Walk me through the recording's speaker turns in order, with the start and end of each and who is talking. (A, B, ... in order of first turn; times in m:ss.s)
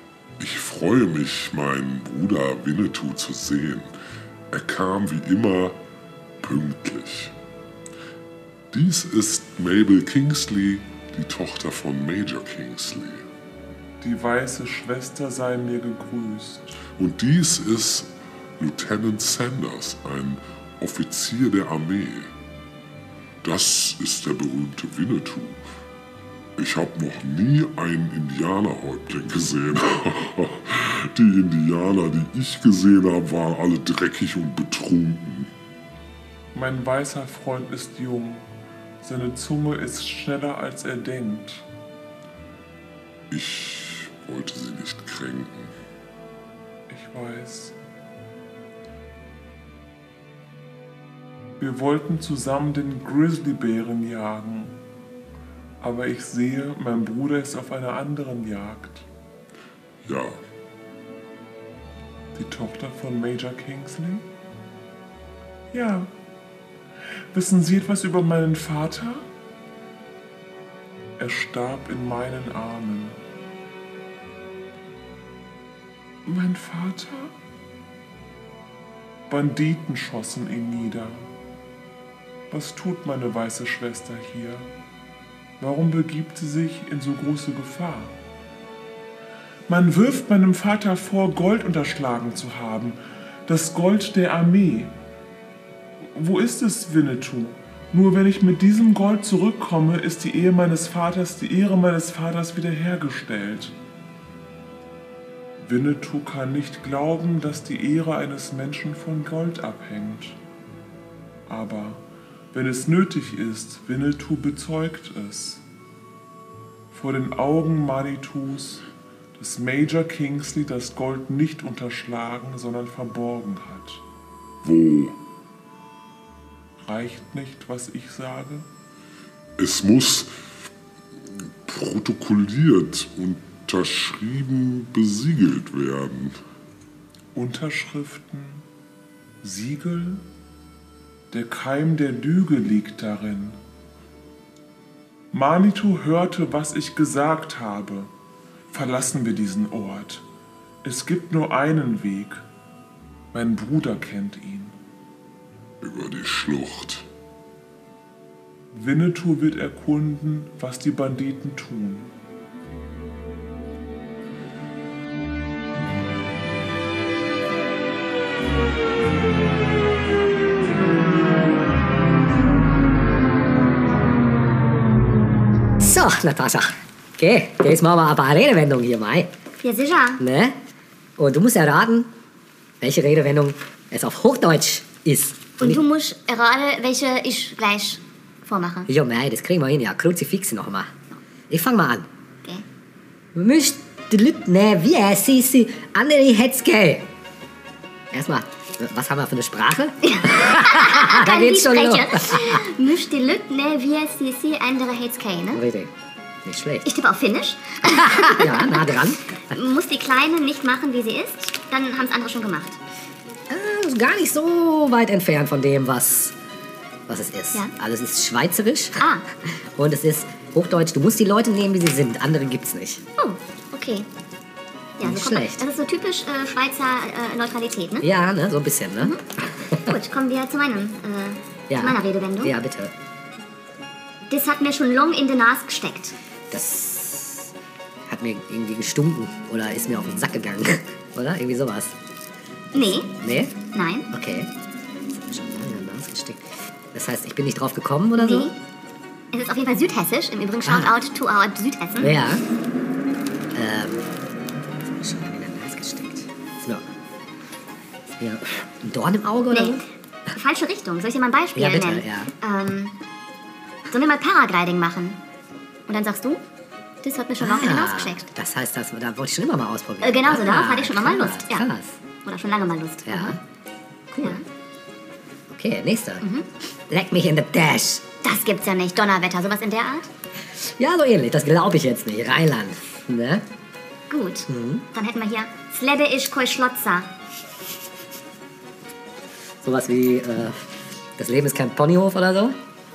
0:00.4-0:03.9 A
0:04.5-0:05.8 A
0:06.4-0:07.3 A
0:08.7-0:13.2 A
0:14.0-0:16.8 B
0:17.0-0:22.3 A
0:23.4-0:25.6 A
0:26.6-0:35.5 A
0:36.5-0:38.4 B
0:39.0-0:41.6 B
0:43.3-0:45.7 A
0:46.9-0:47.7 B
0:51.6-0:54.8 B
0:55.8-0:59.0 B
1:00.0-1:00.4 A
1:02.4-1:04.2 B
1:05.7-1:06.1 B
1:07.3-1:09.2 B
1:11.2-1:13.2 B
1:16.3-1:17.3 B
1:19.3-1:21.3 B
1:22.5-1:24.7 B
1:25.6-1:28.2 B
1:29.7-1:34.9 B
1:36.1-1:43.7 B
1:45.6-1:50.4 B
1:51.5-1:55.6 B
1:56.9-1:58.8 B
1:59.4-2:04.0 B
2:04.6-2:05.2 A
2:06.8-2:08.7 B
2:09.6-2:10.3 A
2:11.6-2:16.4 A
2:17.4-2:18.6 B
2:19.4-2:20.2 B
2:21.3-2:23.6 B
2:25.3-2:28.1 B
2:28.7-2:30.2 B
2:30.8-2:32.4 B
2:33.3-2:34.8 B
2:35.8-2:37.1 A
2:38.7-2:42.1 B
2:55.8-2:59.3 C
2:59.6-3:00.2 D
3:00.2-3:00.6 C
3:01.2-3:02.1 C
3:02.8-3:05.8 C
3:05.6-3:08.9 D
3:08.9-3:10.9 C
3:11.5-3:12.1 C
3:13.4-3:17.1 C
3:18.1-3:22.6 C
3:20.0-3:25.6 D
3:25.5-3:25.9 C
3:26.4-3:26.9 C
3:26.8-3:29.0 D
3:27.8-3:29.3 C
3:29.5-3:32.8 D
3:33.5-3:36.4 C
3:37.1-3:43.0 C
3:39.0-3:39.2 D
3:43.2-3:44.1 D
3:45.0-3:48.1 D
3:45.0-3:45.6 C
3:48.0-3:50.0 C
3:49.8-3:52.6 D
3:51.7-3:52.9 C
3:54.3-3:56.2 D
3:56.5-3:57.5 C
3:58.1-4:02.0 C
4:02.7-4:03.6 C
4:02.7-4:03.2 D
4:03.7-4:04.1 D
4:04.1-4:04.5 C
4:05.1-4:08.5 C
4:08.2-4:08.6 D
4:09.3-4:12.2 D
4:10.6-4:11.0 C
4:12.0-4:12.4 C
4:13.5-4:14.1 C
4:14.9-4:16.8 C
4:18.2-4:19.8 C
4:19.5-4:19.8 D
4:20.3-4:23.0 D
4:21.6-4:22.3 C
4:23.9-4:25.2 D
4:25.9-4:26.4 D
4:27.0-4:28.3 D
4:27.4-4:32.0 C
4:30.0-4:31.7 D
4:32.2-4:33.4 D
4:33.1-4:33.4 C
4:34.1-4:34.4 C
4:35.5-4:36.2 C
4:36.2-4:36.5 D
4:36.8-4:38.0 C
4:38.2-4:40.1 D
4:40.6-4:43.4 C
4:44.1-4:47.1 D
4:44.5-4:44.8 C
4:49.6-4:52.6 C